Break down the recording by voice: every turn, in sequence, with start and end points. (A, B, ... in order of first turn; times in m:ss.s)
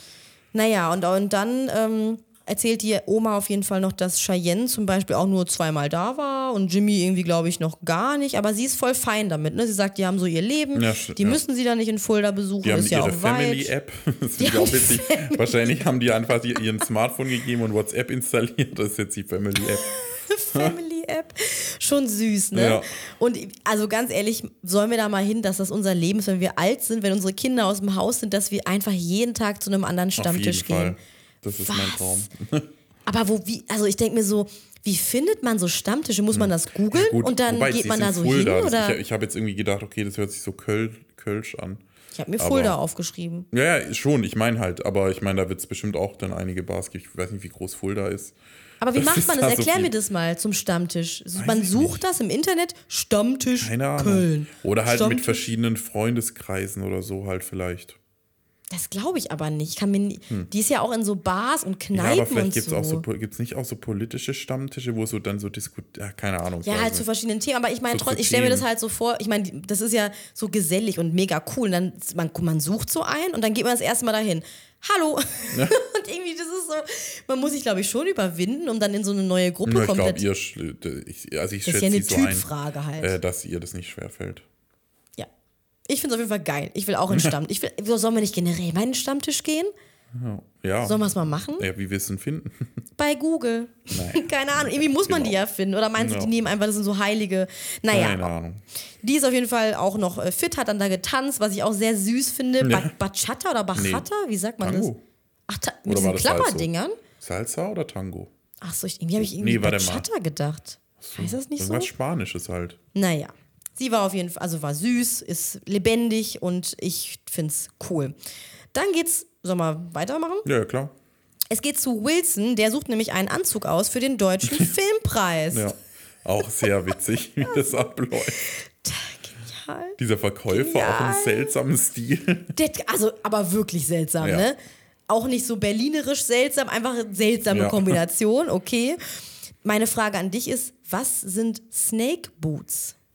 0:00.5-0:13.7 A
0:10.7-0:11.4 B
0:12.6-0:19.9 B
0:14.4-0:15.6 A
0:19.9-0:31.0 A
0:22.5-0:22.9 B
0:30.2-0:32.7 B
0:31.6-0:32.3 A
0:33.1-0:39.0 A
0:36.3-0:41.8 B
0:42.1-0:43.5 A
0:42.4-0:42.8 B
0:43.5-0:48.4 B
0:48.8-0:55.5 A
0:49.0-0:49.9 B
0:51.4-0:52.0 B
0:53.6-0:58.0 B
0:58.7-1:03.0 A
1:01.9-1:07.0 B
1:06.6-1:20.2 A
1:07.9-1:08.6 B
1:15.5-1:15.8 B
1:19.6-1:22.5 B
1:21.6-1:23.1 A
1:23.0-1:24.5 B
1:25.9-1:29.7 A
1:30.1-1:31.0 B
1:30.8-1:31.7 A
1:31.6-1:32.7 B
1:33.0-1:38.3 A
1:33.9-1:35.4 B
1:36.0-1:36.3 B
1:37.9-1:38.6 B
1:39.0-1:44.9 A
1:42.6-1:42.9 B
1:43.8-1:44.1 B
1:44.6-1:45.0 B
1:45.5-1:47.0 A
1:45.9-1:48.3 B
1:48.6-1:51.9 A
1:49.2-1:50.0 B
1:51.0-1:52.8 B
1:53.0-1:58.1 A
1:58.7-2:00.5 A
2:00.4-2:00.9 B
2:01.5-2:05.7 A
2:05.5-2:08.4 B
2:07.5-2:07.9 A
2:08.4-2:11.5 A
2:10.0-2:12.5 B
2:12.6-2:14.6 A
2:14.2-2:14.5 B
2:15.1-2:19.0 A
2:17.5-2:18.0 B
2:19.6-2:23.0 A